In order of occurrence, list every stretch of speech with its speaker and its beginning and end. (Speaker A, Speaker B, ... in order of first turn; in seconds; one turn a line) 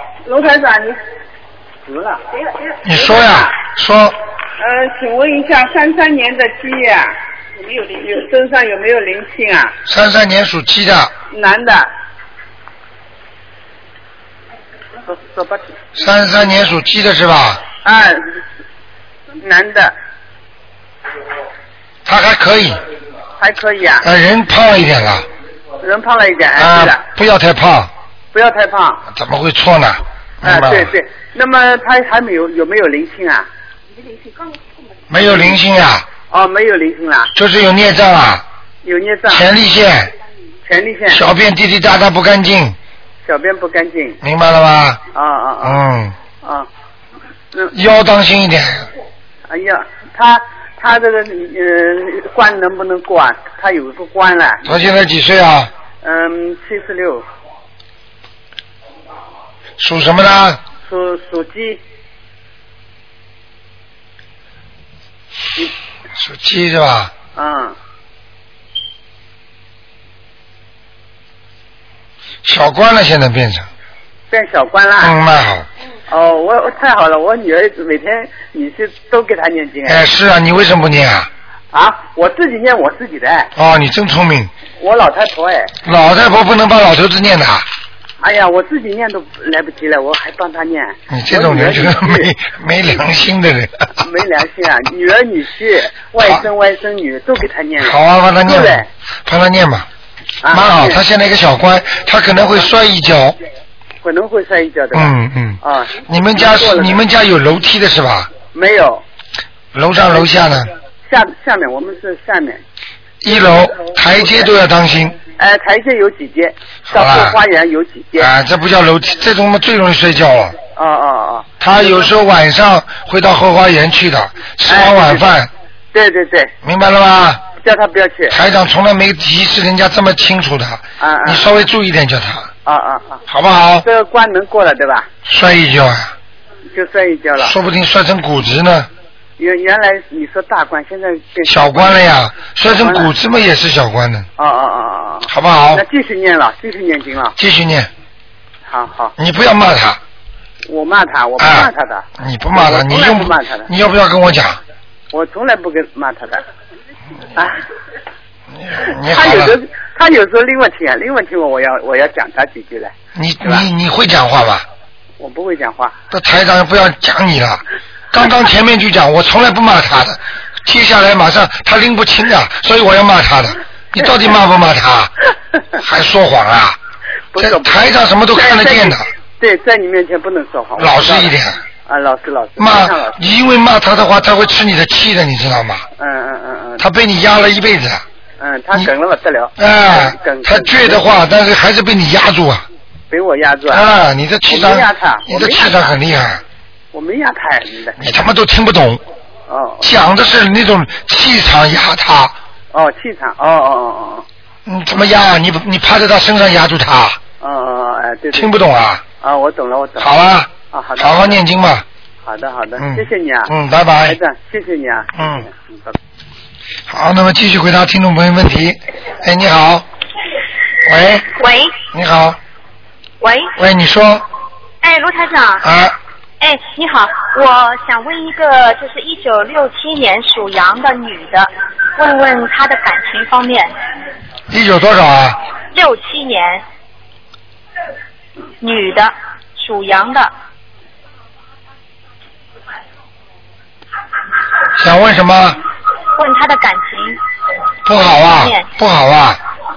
Speaker A: 0.2-1.0
Speaker A: 1.9-2.2
Speaker B: 2.8-4.2
Speaker A: 2.9-3.5
Speaker A: 4.6-9.8
Speaker B: 9.8-11.1
Speaker A: 11.3-11.9
Speaker A: 15.1-15.7
Speaker B: 15.9-17.6
Speaker A: 17.8-18.3
Speaker A: 19.4-19.9
Speaker B: 22.1-22.8
Speaker A: 23.4-24.1
Speaker B: 24.0-25.3
Speaker A: 25.8-27.0
Speaker B: 26.6-27.9
Speaker A: 28.3-29.0
Speaker B: 29.1-30.9
Speaker A: 30.4-33.5
Speaker B: 35.1-36.1
Speaker A: 36.3-37.3
Speaker B: 37.3-38.5
Speaker A: 38.8-39.5
Speaker B: 39.3-40.1
Speaker A: 40.6-41.2
Speaker B: 41.1-42.8
Speaker A: 43.2-44.2
Speaker B: 44.2-45.0
Speaker A: 45.1-45.8
Speaker B: 45.6-46.2
Speaker A: 46.4-46.7
Speaker B: 47.7-48.9
Speaker A: 49.5-54.8
Speaker B: 54.6-55.7
Speaker A: 56.0-57.2
Speaker B: 59.8-60.6
Speaker A: 60.9-61.8
Speaker B: 66.2-67.1
Speaker A: 67.4-67.8
Speaker B: 72.4-73.7
Speaker A: 74.3-75.2
Speaker B: 75.0-75.7
Speaker A: 76.1-80.0
Speaker B: 79.9-81.3
Speaker A: 81.7-83.5
Speaker B: 83.5-84.5
Speaker A: 84.8-85.7
Speaker B: 85.8-87.7
Speaker A: 88.2-92.3
Speaker B: 91.1-93.9
Speaker A: 94.0-98.9
Speaker B: 96.2-96.5
Speaker B: 97.8-99.9
Speaker A: 100.4-101.0
Speaker B: 100.5-103.4
Speaker A: 104.0-107.0
Speaker B: 104.9-108.3
Speaker A: 108.4-109.0
Speaker B: 109.7-110.7
Speaker A: 111.0-112.6
Speaker B: 113.2-115.2
Speaker A: 113.3-114.5
Speaker A: 115.4-118.3
Speaker B: 116.9-117.4
Speaker B: 118.2-120.6
Speaker A: 120.8-122.1
Speaker B: 121.6-125.5
Speaker A: 124.7-125.3
Speaker A: 125.9-126.5
Speaker B: 126.6-127.5
Speaker A: 127.6-128.4
Speaker B: 128.3-132.5
Speaker A: 131.0-131.5
Speaker A: 132.7-133.2
Speaker B: 133.3-133.9
Speaker A: 133.8-135.1
Speaker B: 135.2-136.1
Speaker A: 136.7-137.5
Speaker B: 137.4-138.9
Speaker A: 139.4-142.0
Speaker B: 141.5-144.3
Speaker A: 142.7-143.1
Speaker A: 144.4-147.4
Speaker B: 145.3-145.8
Speaker B: 147.4-147.9
Speaker A: 148.7-149.1
Speaker B: 149.2-150.0
Speaker A: 150.7-153.7
Speaker B: 151.4-154.6
Speaker A: 155.1-156.4
Speaker B: 158.5-159.6
Speaker A: 159.1-163.7
Speaker B: 163.2-164.7
Speaker A: 165.2-166.0
Speaker B: 166.1-175.1
Speaker B: 175.8-176.8
Speaker A: 177.3-183.3
Speaker B: 177.4-179.1
Speaker B: 180.8-181.6
Speaker B: 182.6-185.9
Speaker A: 186.0-186.8
Speaker B: 186.8-188.0
Speaker A: 188.4-191.1
Speaker B: 189.6-192.7
Speaker A: 193.1-193.9
Speaker B: 193.7-196.4
Speaker A: 194.5-195.8
Speaker A: 196.9-198.1
Speaker B: 198.0-199.0
Speaker A: 199.5-199.8
Speaker B: 199.8-202.4
Speaker A: 202.7-204.3
Speaker B: 204.7-207.2
Speaker A: 207.4-208.6
Speaker B: 208.3-209.0
Speaker A: 209.2-211.4
Speaker B: 210.0-211.9
Speaker A: 212.2-215.9
Speaker B: 212.8-214.2
Speaker B: 215.2-215.4
Speaker B: 216.9-219.9
Speaker B: 220.8-221.3
Speaker C: 221.4-221.8
Speaker B: 221.9-222.4
Speaker C: 223.2-223.5
Speaker B: 223.6-224.2
Speaker C: 224.8-225.6
Speaker B: 225.6-226.0
Speaker C: 226.4-233.7
Speaker B: 234.5-235.4
Speaker C: 235.7-236.6
Speaker C: 238.6-240.3
Speaker B: 244.8-245.6
Speaker C: 246.2-247.2
Speaker B: 247.8-249.4
Speaker C: 248.0-248.7